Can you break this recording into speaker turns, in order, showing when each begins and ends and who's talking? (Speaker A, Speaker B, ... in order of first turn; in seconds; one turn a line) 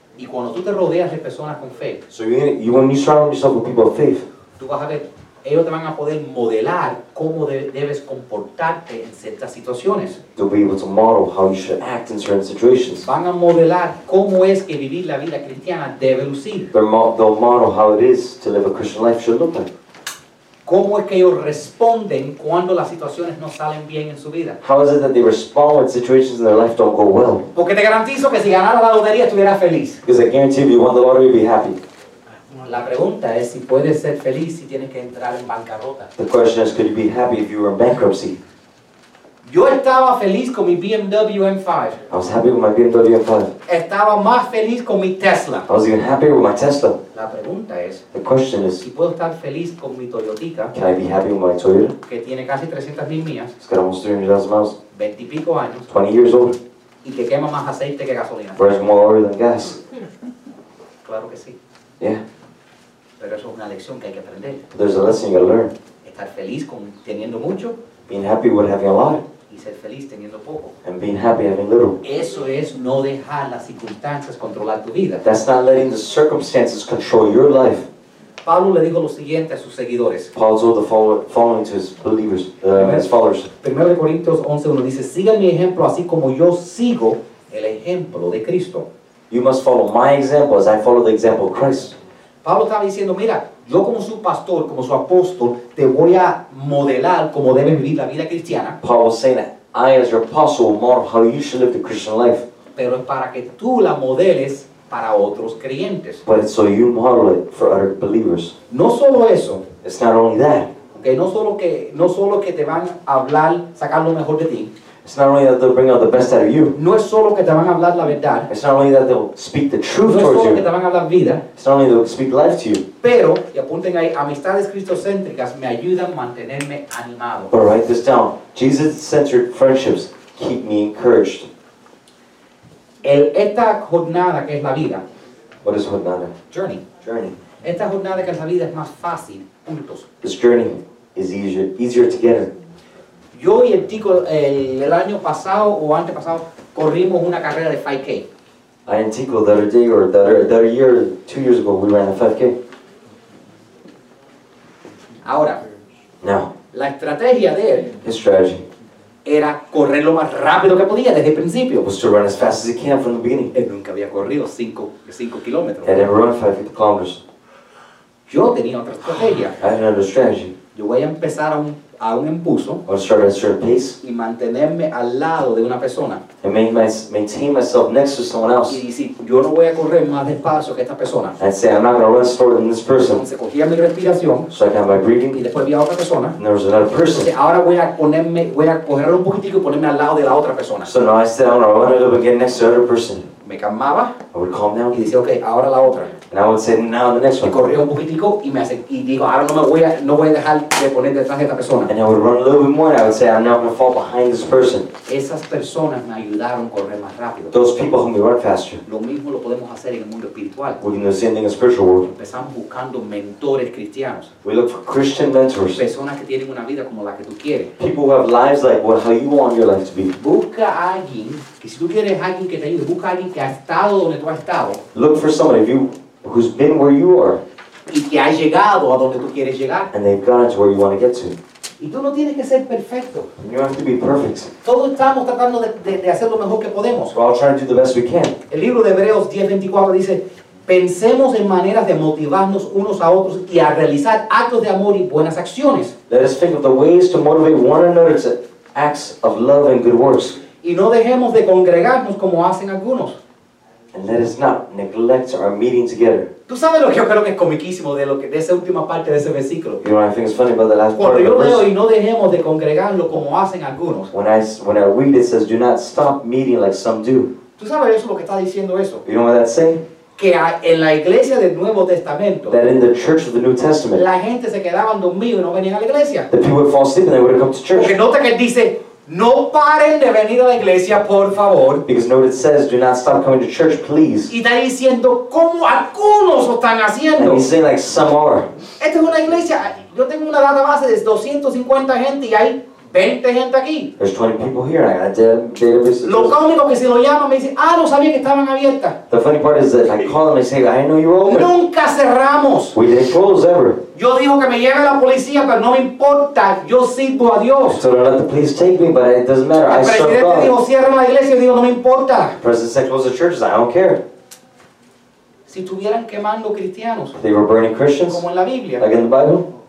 Speaker A: 0.2-2.0
Speaker B: 2.1-4.2
Speaker A: 4.6-10.2
Speaker B: 10.3-13.1
Speaker A: 13.0-16.7
Speaker B: 16.7-19.7
Speaker A: 20.6-24.6
Speaker B: 24.6-27.5
Speaker A: 27.5-30.0
Speaker B: 30.0-31.8
Speaker A: 32.6-36.1
Speaker B: 36.2-38.4
Speaker A: 39.4-42.0
Speaker B: 42.1-43.5
Speaker A: 43.6-45.7
Speaker B: 45.7-47.0
Speaker A: 47.1-48.0
Speaker B: 48.1-48.8
Speaker A: 48.8-50.7
Speaker B: 50.7-51.9
Speaker A: 52.0-53.5
Speaker B: 53.6-54.8
Speaker A: 54.9-55.9
Speaker B: 55.9-56.6
Speaker A: 57.0-58.6
Speaker B: 58.5-59.8
Speaker A: 61.0-61.6
Speaker A: 63.2-64.6
Speaker B: 64.7-65.7
Speaker A: 66.0-67.8
Speaker B: 68.1-69.2
Speaker A: 69.5-70.7
Speaker B: 70.8-72.0
Speaker A: 72.0-75.2
Speaker B: 75.2-77.9
Speaker A: 78.4-80.3
Speaker B: 80.3-83.5
Speaker A: 82.7-83.1
Speaker A: 83.6-88.8
Speaker B: 89.3-91.9
Speaker A: 92.4-98.8
Speaker B: 98.8-102.4
Speaker A: 102.8-106.2
Speaker B: 106.2-108.5
Speaker A: 108.7-109.7
Speaker B: 109.8-110.7
Speaker A: 110.9-114.7
Speaker B: 115.0-116.8
Speaker A: 116.7-118.5
Speaker B: 118.5-120.7
Speaker A: 120.0-121.4
Speaker B: 121.5-122.8
Speaker A: 123.0-127.5
Speaker B: 127.5-131.5
Speaker A: 133.0-135.0
Speaker B: 135.6-136.3
Speaker A: 136.5-136.8
Speaker B: 137.0-137.3
Speaker A: 137.6-140.1
Speaker B: 140.2-142.5
Speaker A: 143.3-148.2
Speaker B: 148.8-152.6
Speaker A: 155.2-155.6
Speaker B: 156.2-156.5
Speaker A: 156.7-157.9
Speaker B: 158.0-158.7
Speaker A: 159.2-161.9
Speaker B: 161.8-163.5
Speaker A: 163.5-166.0
Speaker B: 165.8-167.2
Speaker A: 168.3-169.6
Speaker B: 169.6-170.5
Speaker A: 170.7-172.8
Speaker B: 172.8-174.0
Speaker A: 174.0-176.2
Speaker B: 176.4-178.8
Speaker A: 178.7-181.4
Speaker B: 181.4-183.2
Speaker A: 183.0-184.5
Speaker B: 184.5-185.4
Speaker A: 185.3-186.4
Speaker B: 186.4-187.3
Speaker A: 187.1-190.9
Speaker B: 190.8-193.3
Speaker A: 193.4-194.2
Speaker B: 194.3-195.0
Speaker A: 194.9-196.2
Speaker B: 196.3-197.6
Speaker A: 197.4-201.9
Speaker B: 201.9-204.9
Speaker A: 205.1-207.5
Speaker B: 207.5-208.8
Speaker A: 208.8-210.8
Speaker B: 210.8-212.1
Speaker A: 212.1-214.3
Speaker B: 214.4-215.8
Speaker A: 215.7-217.7
Speaker B: 217.8-220.1
Speaker A: 220.2-224.8
Speaker B: 224.9-227.4
Speaker A: 227.9-229.9
Speaker B: 229.9-231.4
Speaker A: 231.8-233.3
Speaker B: 233.4-234.5
Speaker A: 234.6-237.1
Speaker B: 237.1-238.4
Speaker A: 238.5-245.9
Speaker B: 246.1-250.4
Speaker A: 250.6-253.2
Speaker B: 253.9-256.3
Speaker A: 256.5-259.8
Speaker B: 259.8-261.7
Speaker A: 260.9-264.1
Speaker B: 264.1-267.3
Speaker A: 267.6-269.0
Speaker B: 269.0-269.8
Speaker A: 270.2-272.6
Speaker B: 272.5-274.0
Speaker A: 273.9-276.3
Speaker B: 276.3-277.9
Speaker A: 277.7-281.8
Speaker B: 281.9-284.3
Speaker A: 284.3-287.4
Speaker B: 287.2-288.5
Speaker A: 288.8-293.9
Speaker B: 294.0-296.4
Speaker A: 296.0-299.0
Speaker B: 299.1-301.5
Speaker A: 301.2-302.8
Speaker B: 302.7-303.8
Speaker A: 303.9-307.8
Speaker B: 307.6-310.5
Speaker A: 309.6-312.4
Speaker B: 312.4-314.0
Speaker A: 315.5-317.1
Speaker B: 317.1-318.2
Speaker A: 318.1-318.8
Speaker B: 318.8-319.5